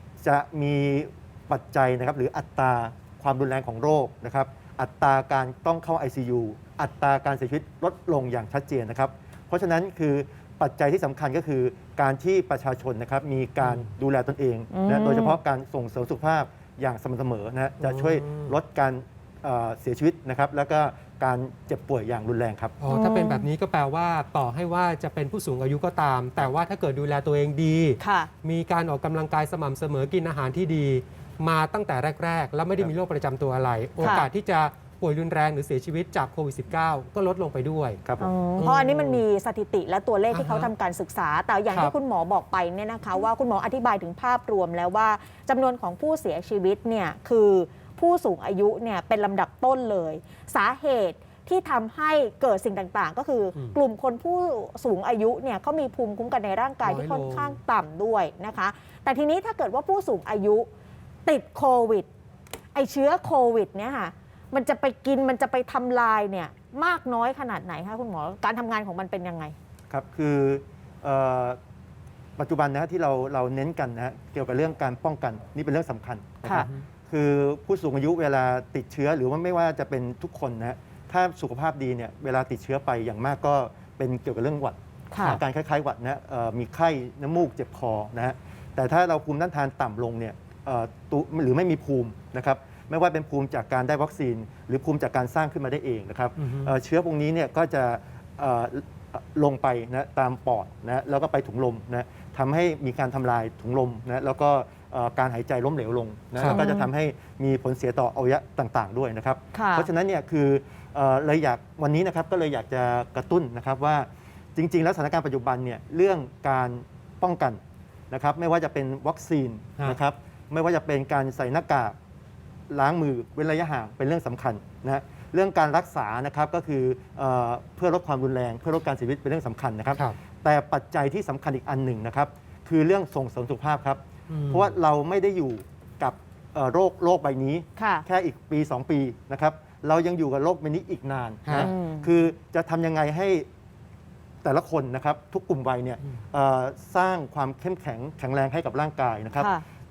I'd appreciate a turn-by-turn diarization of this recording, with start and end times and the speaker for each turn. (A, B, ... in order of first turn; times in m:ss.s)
0:00.2-0:22.8 A
0:13.6-0:13.9 B
0:14.7-0:15.4 C
0:17.8-0:18.5 B
0:22.8-0:38.0 B
0:22.9-0:23.5 C
0:28.0-0:28.3 C
0:34.0-0:34.3 C
0:38.2-1:00.7 C
0:38.6-0:39.2 B
0:40.3-0:40.7 B
0:56.8-0:57.6 B
1:01.2-1:02.1 C
1:02.7-1:09.6 C
1:09.9-1:11.6 A
1:12.4-1:57.6 A
1:25.1-1:25.4 C
1:36.4-1:36.7 B
1:46.4-1:46.6 B
1:46.4-1:46.9 C
1:49.5-1:49.9 C
1:58.1-2:01.9 A
2:02.7-2:23.5 A
2:14.3-2:14.7 B
2:17.8-2:18.0 C
2:21.4-2:21.7 B
2:21.6-2:22.1 C
2:24.4-2:29.5 A
2:29.4-2:29.6 C